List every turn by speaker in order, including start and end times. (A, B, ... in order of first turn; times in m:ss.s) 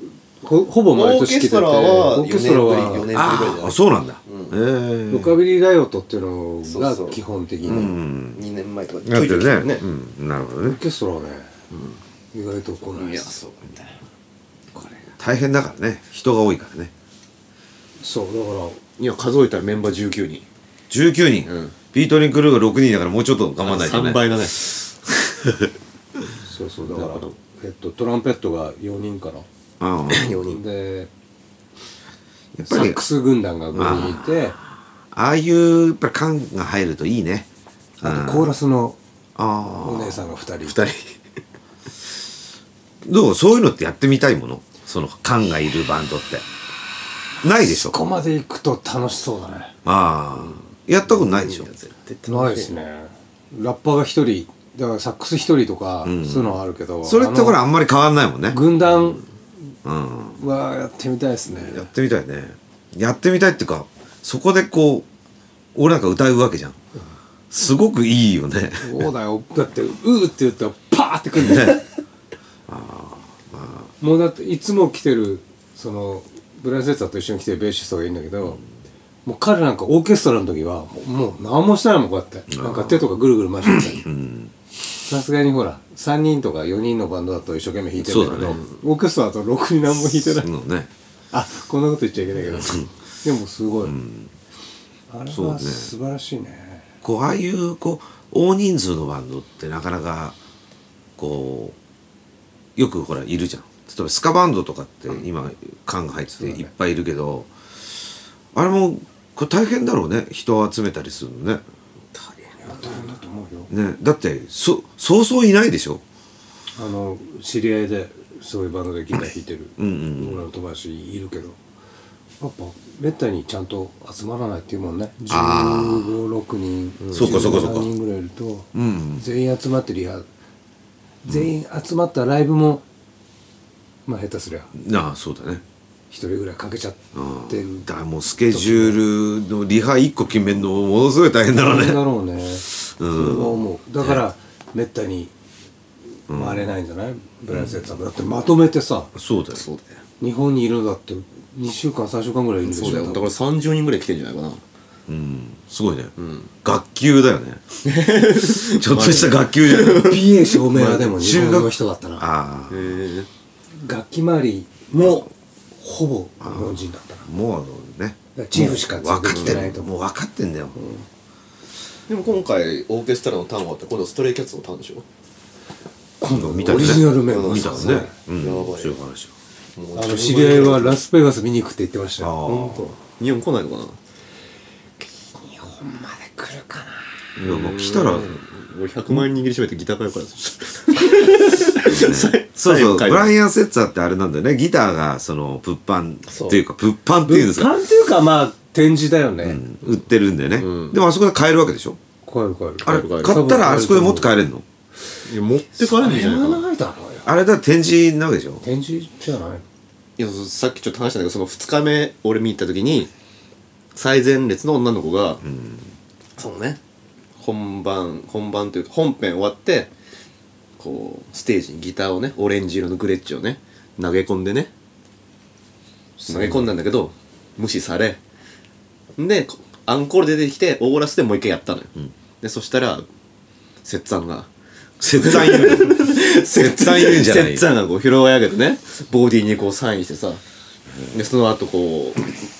0:00.4-0:03.1 A
0:00.9-0:04.6 B
0:03.1-0:05.4 C
0:05.1-0:07.9 A
0:06.6-0:09.8 B
0:07.6-0:08.4 C
0:09.0-0:10.8 C
0:10.6-0:11.5 A
0:11.7-0:12.0 B
0:12.3-0:13.4 A
0:12.9-0:14.0 B
0:14.7-0:15.0 A
0:15.2-0:16.9 C
0:18.0-0:18.8 A
0:19.0-0:20.4 B
0:20.9-0:24.4 C
0:21.4-0:21.8 B
0:23.6-0:24.9 B
0:26.4-0:29.5 A
0:26.9-0:27.3 B
0:29.8-0:30.3 C
0:30.1-0:30.6 B
0:30.5-0:31.1 A
0:32.5-0:33.0 C
0:32.6-0:34.6 A
0:33.7-0:34.1 B
0:33.8-0:34.4 C
0:35.1-0:37.5 C
0:38.0-0:38.5 C
0:38.0-0:39.0 A
0:39.4-0:40.3 C
0:39.8-0:40.8 A
0:40.6-0:41.2 B
0:43.0-0:46.4 C
0:47.4-0:48.0 C
0:47.6-0:49.7 A
0:49.8-0:51.7 C
0:50.4-0:52.7 B
0:52.3-0:57.6 A
0:56.0-0:58.6 C
0:58.5-0:59.2 A
0:59.8-1:00.4 C
1:00.4-1:01.9 A
1:01.5-1:05.1 C
1:05.7-1:06.8 C
1:07.5-1:09.0 C
1:08.8-1:11.8 A
1:11.4-1:11.8 C
1:12.7-1:13.9 C
1:14.0-1:18.6 A
1:19.2-1:24.0 A
1:22.5-1:23.1 C
1:23.7-1:24.5 C
1:25.0-1:30.5 A
1:28.0-1:28.6 C
1:30.2-1:30.9 C
1:31.3-1:34.0 A
1:32.4-1:32.9 C
1:33.8-1:34.3 C
1:35.1-1:36.8 A
1:35.3-1:35.9 C
1:37.0-1:40.4 C
1:41.2-1:41.8 C
1:42.8-1:47.5 C
1:46.4-1:46.7 A
1:48.5-1:51.6 C
1:52.2-1:53.7 A
1:53.7-1:56.0 C
1:56.8-2:01.6 A
1:59.8-2:00.4 C
2:02.4-2:10.2 A
2:05.3-2:06.2 C
2:07.1-2:07.9 C
2:08.7-2:09.2 C
2:11.2-2:12.8 A
2:14.0-2:14.7 A
2:14.7-2:15.6 C
2:16.1-2:17.9 A
2:17.1-2:22.1 C
2:18.5-2:19.0 A
2:21.5-2:25.3 A
2:22.6-2:24.2 C
2:26.3-2:26.7 C
2:26.3-2:29.1 A
2:27.5-2:27.9 C
2:29.1-2:29.6 C
2:29.5-2:29.9 B
2:30.2-2:33.3 A
2:32.6-2:34.6 B
2:35.1-2:36.1 C
2:36.2-2:36.5 B
2:36.6-2:37.6 C
2:37.8-2:41.1 B
2:38.4-2:40.2 C
2:39.9-2:42.2 A
2:41.1-2:43.0 C
2:42.7-2:43.3 B
2:43.7-2:47.3 A
2:46.4-2:50.8 C
2:48.3-2:49.9 A
2:49.3-2:49.6 B
2:50.7-2:51.0 A
2:52.1-2:55.0 B
2:56.2-2:58.1 A
2:56.3-2:59.3 C
2:56.6-2:59.0 B
2:59.8-3:01.0 B
3:00.0-3:02.5 A
3:02.2-3:02.9 C
3:02.4-3:04.0 B
3:05.3-3:07.1 A
3:07.4-3:08.4 C
3:07.4-3:13.3 B
3:11.8-3:17.7 C
3:16.3-3:16.6 B
3:17.2-3:19.6 A
3:19.4-3:22.0 C
3:20.6-3:21.0 B
3:22.2-3:24.3 A
3:22.8-3:23.5 B
3:22.8-3:24.6 C
3:25.2-3:26.6 B
3:25.8-3:27.3 A
3:27.2-3:28.6 C
3:28.6-3:29.6 A
3:30.2-3:33.1 B
3:33.9-3:35.4 B
3:35.4-3:35.9 C
3:36.4-3:36.8 B
3:37.4-3:39.9 B
3:40.8-3:44.7 B
3:46.2-3:46.7 A
3:46.3-3:48.2 B
3:49.2-3:53.0 B
3:53.8-3:54.5 B
3:55.0-3:57.7 C
3:55.1-4:00.4 B
4:01.1-4:02.3 B